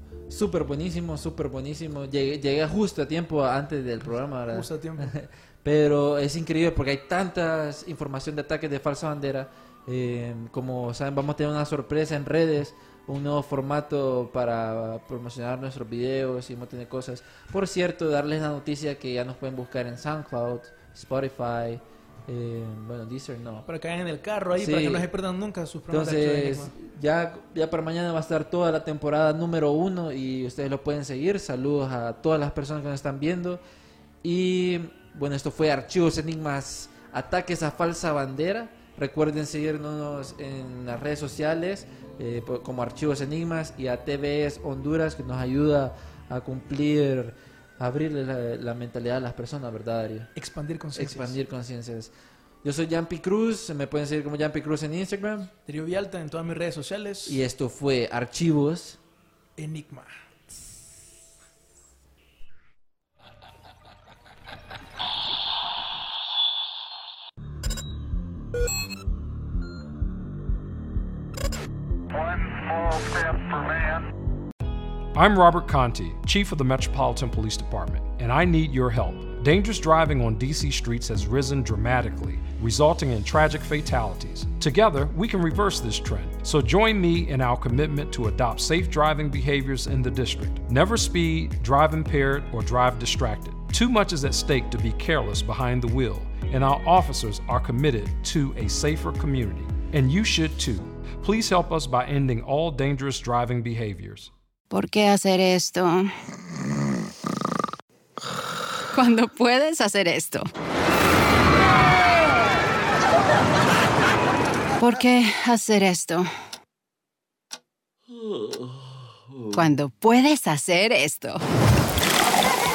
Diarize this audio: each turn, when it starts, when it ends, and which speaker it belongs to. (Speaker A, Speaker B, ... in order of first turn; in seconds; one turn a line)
Speaker A: 0.3-23.6
Speaker B: 4.5-5.1
Speaker B: 23.6-26.7
Speaker A: 24.5-25.1
Speaker A: 25.9-33.6
Speaker A: 34.2-50.3
Speaker B: 50.3-51.4
Speaker A: 50.9-52.1
Speaker A: 52.6-55.5
Speaker B: 55.6-57.4
Speaker A: 57.3-59.0
Speaker B: 59.6-60.1
Speaker C: 72.1-74.1
Speaker C: 75.1-104.3
Speaker D: 104.7-106.1
Speaker D: 108.9-110.5
Speaker D: 114.8-116.3
Speaker D: 119.5-121.4